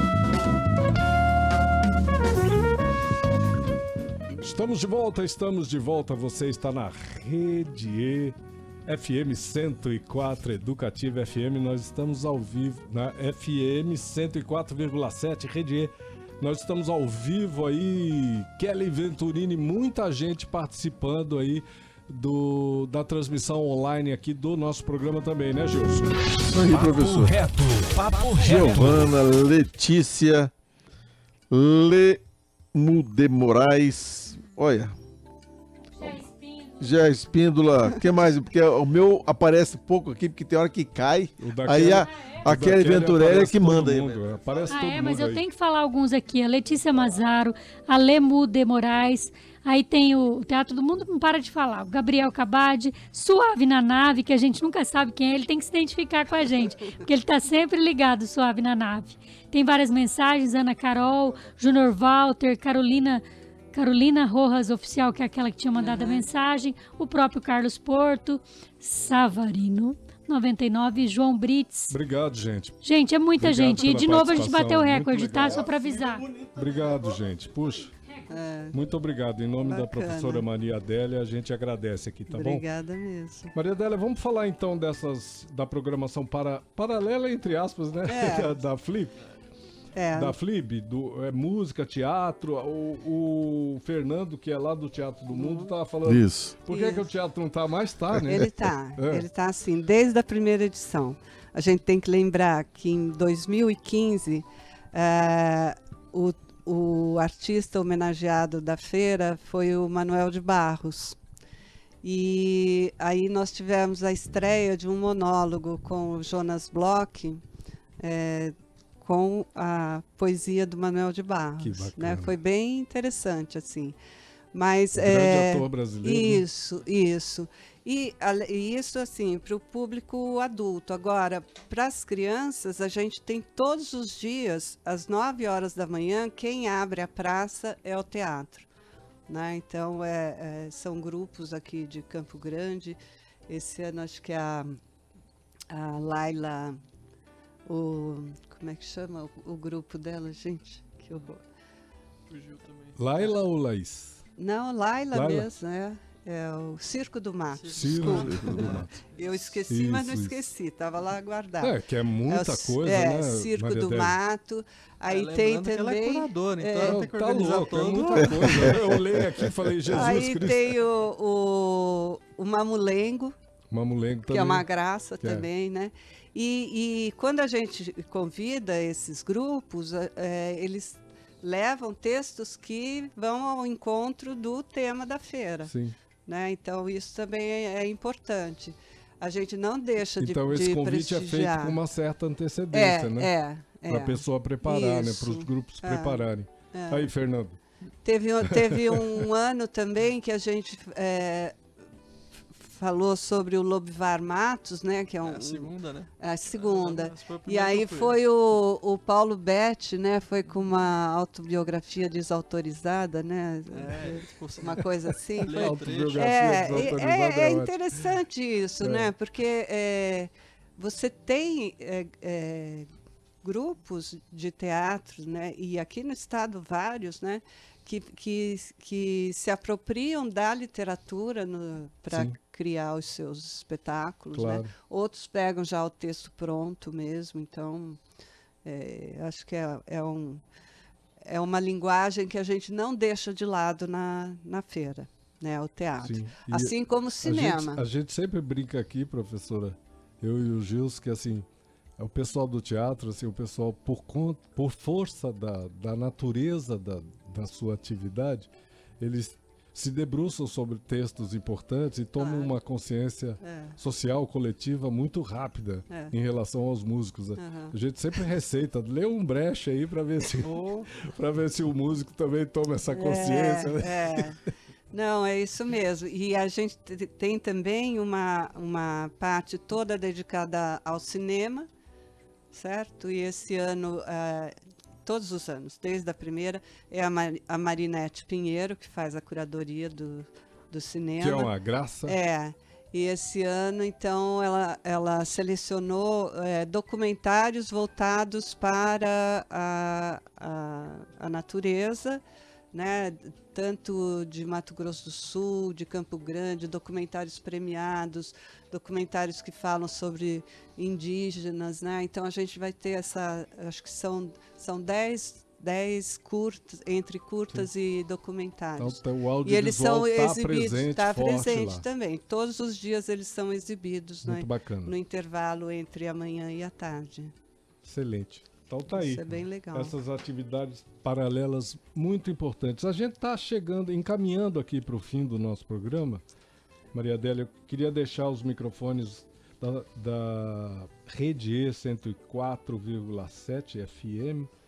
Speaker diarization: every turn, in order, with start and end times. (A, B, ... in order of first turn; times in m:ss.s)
0:04.4-0:26.2 A
0:26.5-0:27.4 B
0:26.6-0:29.1 C
0:28.3-0:30.5 B
0:31.5-0:32.2 B
0:32.7-0:35.0 B
0:35.9-0:36.9 D
0:36.8-0:44.2 B
0:41.4-0:45.4 A
0:42.1-0:42.4 D
0:44.2-0:44.8 E
0:44.7-1:12.0 D
1:05.8-1:06.2 F
1:11.9-1:12.8 A
1:12.8-1:16.4 D
1:13.4-1:17.9 A
1:18.3-1:18.8 F
1:18.7-1:22.6 A
1:19.6-1:20.4 F
1:22.3-1:23.5 F
1:23.5-1:29.2 A
1:28.1-1:28.6 F
1:29.9-1:30.4 F
1:30.2-1:39.2 A
1:35.3-1:35.7 F
1:36.0-1:36.5 B
1:36.7-1:37.0 F
1:38.2-1:51.2 F
1:52.0-1:57.4 F
1:58.0-2:04.0 F
2:01.6-2:02.4 A
2:04.5-2:18.7 F
2:05.0-2:06.4 A
2:19.3-2:23.0 F
2:23.5-2:24.8 F
2:25.7-2:26.8 F
2:27.7-2:31.4 F
2:32.3-2:33.0 E
2:33.0-2:34.2 A
2:34.4-2:41.7 F
2:35.1-2:35.5 A
2:37.5-2:39.4 E
2:37.7-2:38.9 A
2:39.7-2:40.4 A
2:41.6-2:44.2 A
2:42.3-2:47.1 F
2:45.1-2:48.8 E
2:46.8-2:50.8 A
2:49.9-2:53.3 F
2:53.7-2:54.7 A
2:54.3-3:05.7 F
2:55.2-2:55.5 A
3:05.6-3:05.9 A
3:06.2-3:11.8 F
3:10.2-3:13.3 A
3:12.7-3:17.1 F
3:13.9-3:17.6 A
3:18.0-3:21.5 F
3:18.5-3:19.1 A
3:22.6-3:42.9 F
3:25.2-3:28.2 E
3:33.7-3:36.8 E
3:35.5-3:37.8 A
3:38.8-3:39.1 A
3:43.4-3:58.0 F
3:52.1-3:52.4 A
3:54.3-3:54.7 A
3:58.6-4:00.4 F
4:01.2-4:07.8 F
4:06.0-4:11.4 A
4:12.0-4:18.5 A
4:19.0-4:34.3 A
4:22.2-4:22.6 F
4:23.4-4:23.7 F
4:27.4-4:27.7 F
4:30.4-4:30.9 E
4:32.9-4:34.4 F
4:34.9-4:41.7 F
4:42.5-4:44.5 F
4:45.0-4:51.5 F
4:51.2-4:52.2 A
4:52.0-5:02.2 F
5:02.7-5:27.3 F
5:18.8-5:21.8 A
5:24.2-5:24.9 A
5:27.8-5:36.2 A
5:28.9-5:29.9 F
5:36.9-5:44.5 A